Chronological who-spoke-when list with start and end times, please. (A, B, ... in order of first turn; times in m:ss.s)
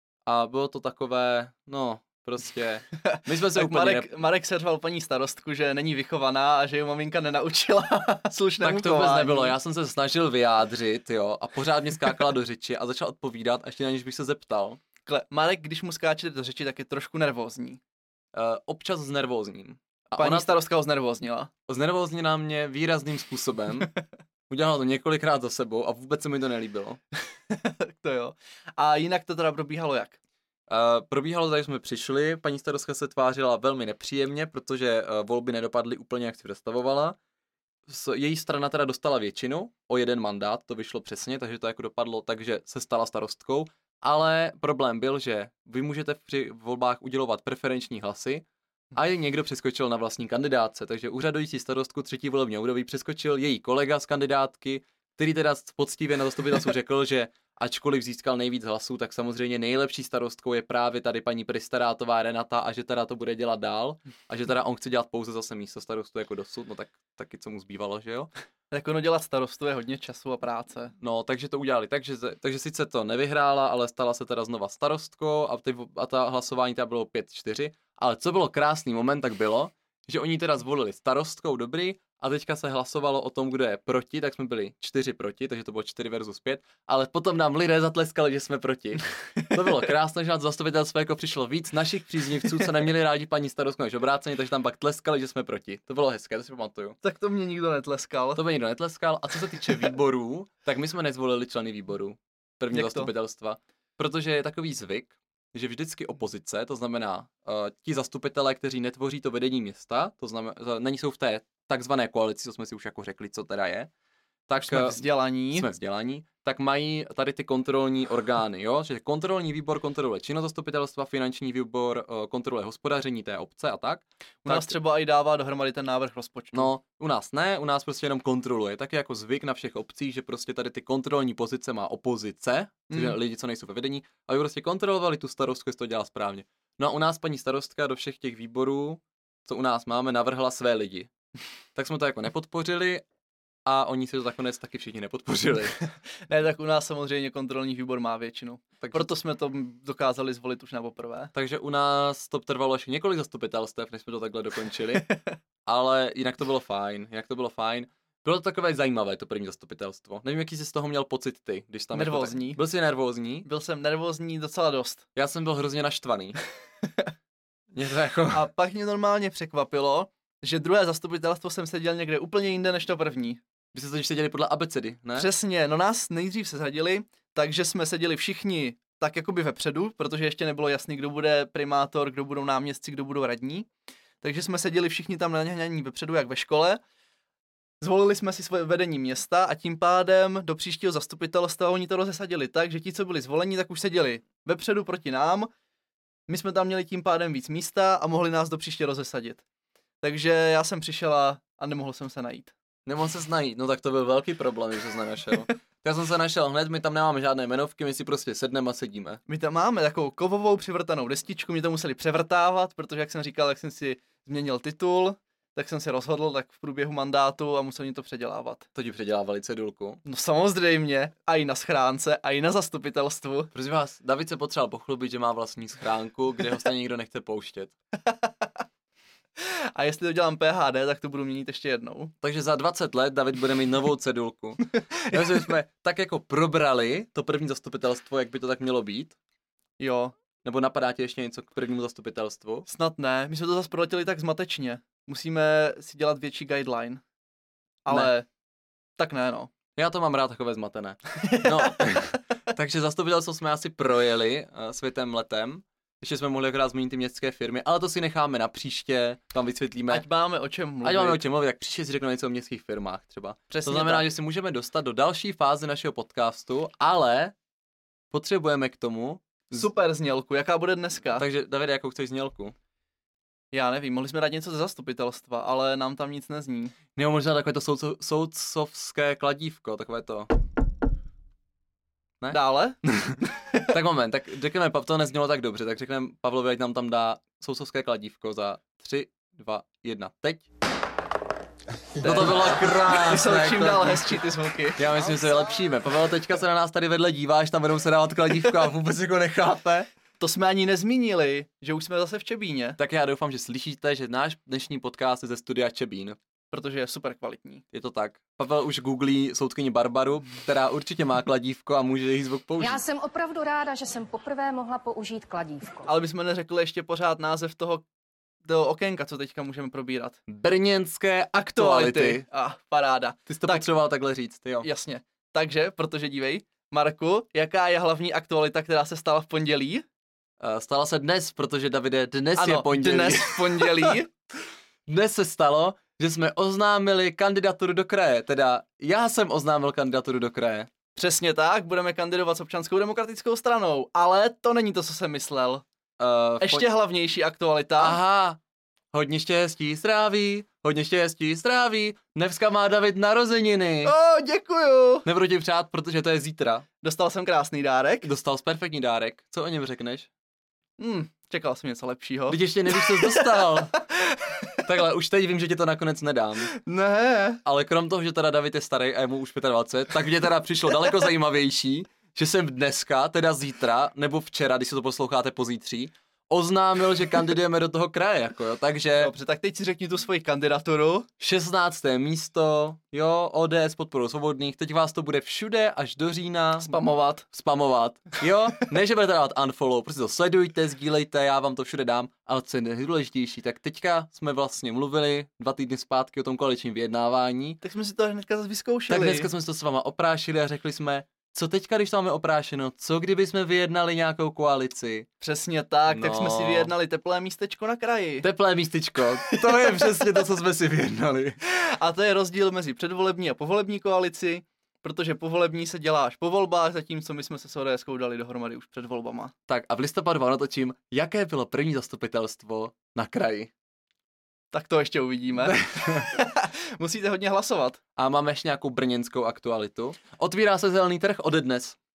0:00.2-0:04.1 A
0:03.1-0:09.5 B
0:08.6-0:14.8 A
0:15.0-0:17.8 B
0:18.3-0:20.5 A
0:20.1-0:21.5 B
0:21.7-0:23.9 A
0:24.5-0:27.0 A
0:27.5-0:30.2 B
0:30.7-0:37.2 A
0:37.9-1:08.3 A
1:08.7-1:10.9 B
1:11.0-1:37.0 A
1:37.0-1:38.4 B
1:38.3-1:53.9 A
1:42.7-1:43.1 B
1:54.5-2:04.7 A
1:54.6-1:55.7 B
2:04.4-2:06.7 B
2:06.5-2:21.1 A
2:12.9-2:13.2 B
2:21.7-2:23.0 A
2:23.6-2:25.8 A
2:26.3-2:31.3 B
2:28.8-2:29.1 A
2:31.3-2:35.1 A
2:35.6-2:43.4 A
2:41.9-2:42.6 B
2:43.4-2:45.0 B
2:45.1-2:46.4 A
2:47.7-2:48.5 A
2:48.3-2:53.4 B
2:53.7-2:55.3 A
2:55.1-3:03.7 B
3:04.2-3:06.8 B
3:07.8-3:15.5 B
3:16.3-3:19.4 B
3:20.0-3:22.5 B
3:22.8-3:29.2 A
3:29.3-3:38.6 B
3:38.7-3:40.0 A
3:40.0-3:43.5 B
3:43.5-3:47.7 A
3:48.0-3:48.5 B
3:49.4-3:52.1 B
3:52.2-3:59.2 A
3:54.7-3:55.4 B
3:59.8-4:00.2 B
4:00.4-4:02.6 A
4:02.6-4:07.0 B
4:07.8-4:08.3 B
4:09.0-4:09.5 B
4:09.8-4:20.0 A
4:11.3-4:12.0 B
4:19.9-4:21.2 B
4:20.8-4:27.3 A
4:23.5-4:24.1 B
4:28.1-4:29.6 A
4:29.5-4:31.2 B
4:31.1-4:32.6 A
4:33.5-4:36.8 B
4:37.0-4:40.3 A
4:42.2-4:50.4 A
4:42.3-4:42.8 B
4:52.0-4:54.9 B
4:52.0-4:54.2 A
4:54.8-4:59.9 A
5:00.2-5:02.8 B
5:02.8-5:06.2 A
5:06.5-5:07.6 B
5:07.7-5:12.8 A
5:12.6-5:15.8 C
5:15.8-5:17.8 B
5:18.4-5:20.2 B
5:20.3-5:22.2 A
5:21.4-5:23.7 B
5:23.3-5:24.7 A
5:24.6-5:29.8 B
5:30.4-5:34.0 A
5:32.4-5:34.1 B
5:34.9-5:40.7 A
5:41.0-5:45.6 B
5:46.0-5:46.6 A
5:46.4-5:48.0 B
5:47.8-5:48.4 A
5:48.9-5:53.9 A
5:53.8-5:55.0 B
5:55.0-5:56.6 A
5:56.8-5:58.1 B
5:58.0-6:00.1 A
6:00.8-6:04.6 B
6:02.3-6:03.8 A
6:04.6-6:06.5 A
6:06.5-6:07.4 B
6:07.4-6:19.1 A
6:19.0-6:21.1 B
6:21.2-6:26.8 A
6:26.6-6:27.2 B
6:27.3-6:37.6 A
6:37.6-6:39.3 B
6:38.9-6:45.1 A
6:45.2-6:48.3 B
6:45.9-6:46.7 A
6:48.2-6:51.4 A
6:49.5-6:49.7 B
6:51.4-6:59.3 B
6:59.5-7:03.5 A
7:04.5-7:07.8 B
7:05.5-7:06.0 A
7:08.0-7:11.8 A